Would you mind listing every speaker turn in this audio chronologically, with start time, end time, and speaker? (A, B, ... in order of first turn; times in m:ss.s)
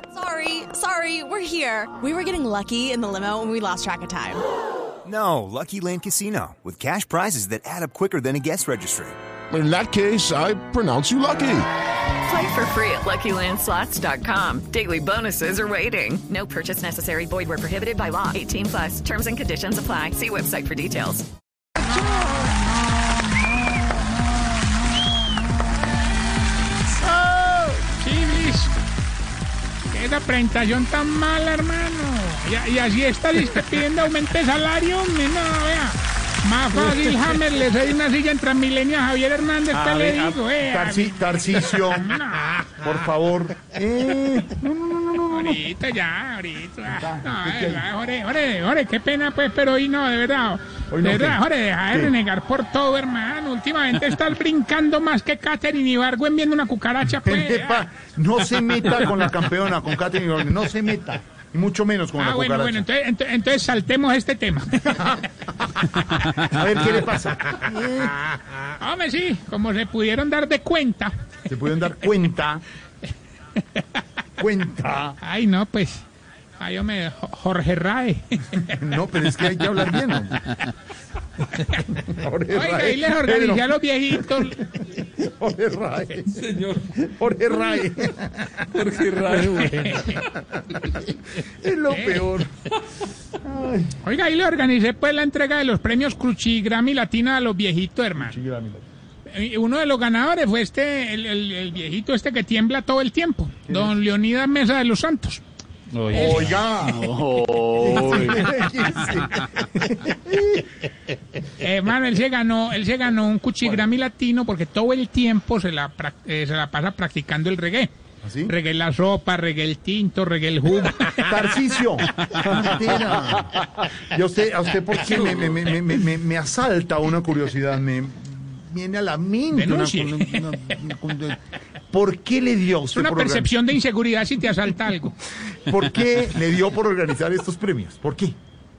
0:00.1-0:04.4 A
0:05.0-0:09.2 B
0:09.5-0:11.7 C
0:12.2-0:21.2 D
0:21.8-0:25.2 E
0:27.1-0:27.7 F
0:27.9-0:28.7 E
0:29.9-0:42.7 E
0:39.7-0:45.6 F
0:45.3-0:57.8 E
0:46.9-0:47.8 F
0:50.9-0:52.1 F
0:57.2-1:02.8 F
1:02.2-1:05.1 E
1:04.9-1:08.4 F
1:08.8-1:11.1 E
1:11.5-1:12.6 F
1:14.4-1:15.2 F
1:15.2-1:16.0 E
1:16.6-1:18.8 E
1:18.7-1:20.4 F
1:21.7-1:32.5 F
1:22.5-1:24.7 E
1:29.4-1:30.2 E
1:31.9-1:32.3 E
1:33.4-1:33.9 F
1:34.0-1:38.4 E
1:38.2-1:38.8 F
1:39.3-1:45.4 E
1:43.7-1:43.9 F
1:46.1-1:46.6 E
1:46.1-1:47.2 F
1:46.9-1:48.4 C
1:47.8-1:50.7 F
1:51.6-1:57.9 E
1:58.2-1:58.5 F
1:58.4-2:01.4 E
2:01.2-2:11.4 F
2:09.5-2:10.8 E
2:11.9-2:13.5 F
2:12.9-2:15.2 E
2:15.6-2:18.3 F